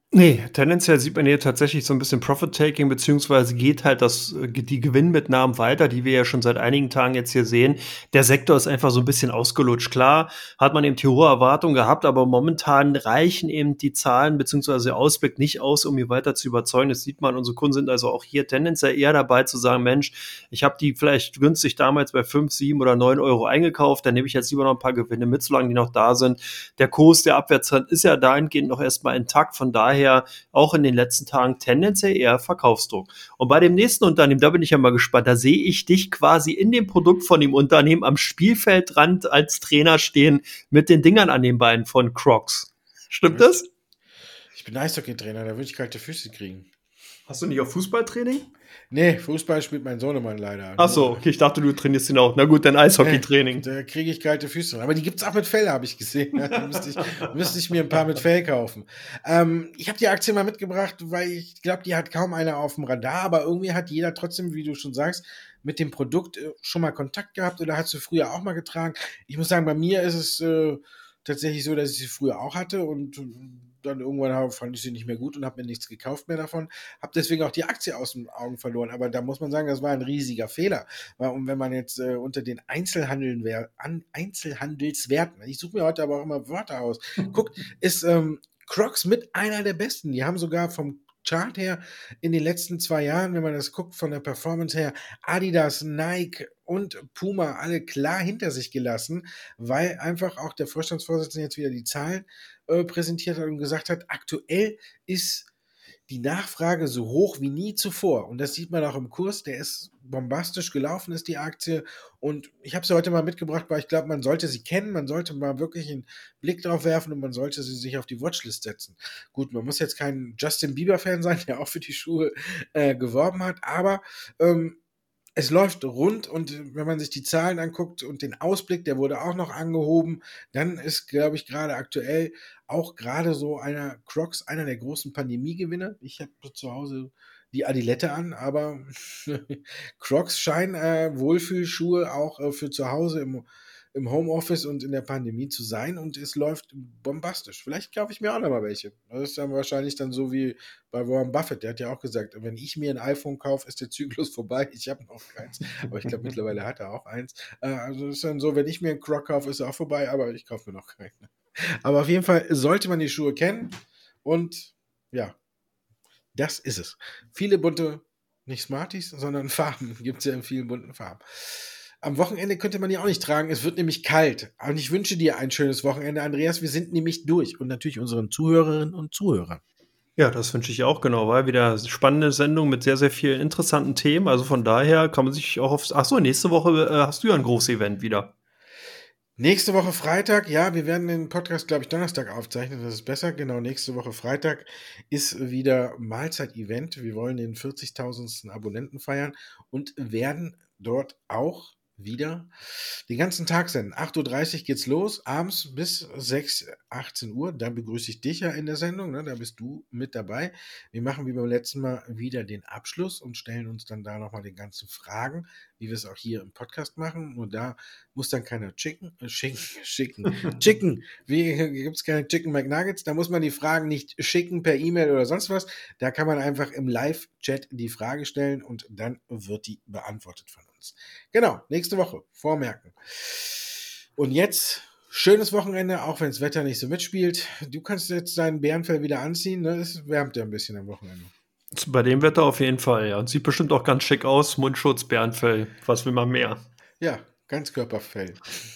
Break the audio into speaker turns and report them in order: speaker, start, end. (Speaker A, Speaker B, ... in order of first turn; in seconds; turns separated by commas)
Speaker A: 0.1-43.7, Speaker B: 43.3-43.6, Speaker B: 44.5-46.7, Speaker A: 47.3-48.5, Speaker B: 48.9-51.2, Speaker A: 50.8-53.7, Speaker B: 53.0-105.5, Speaker A: 56.5-57.3, Speaker B: 106.1-124.8, Speaker B: 125.4-165.3, Speaker B: 166.3-179.6, Speaker A: 180.2-188.3, Speaker B: 189.4-241.3, Speaker A: 241.7-246.6, Speaker B: 247.0-248.5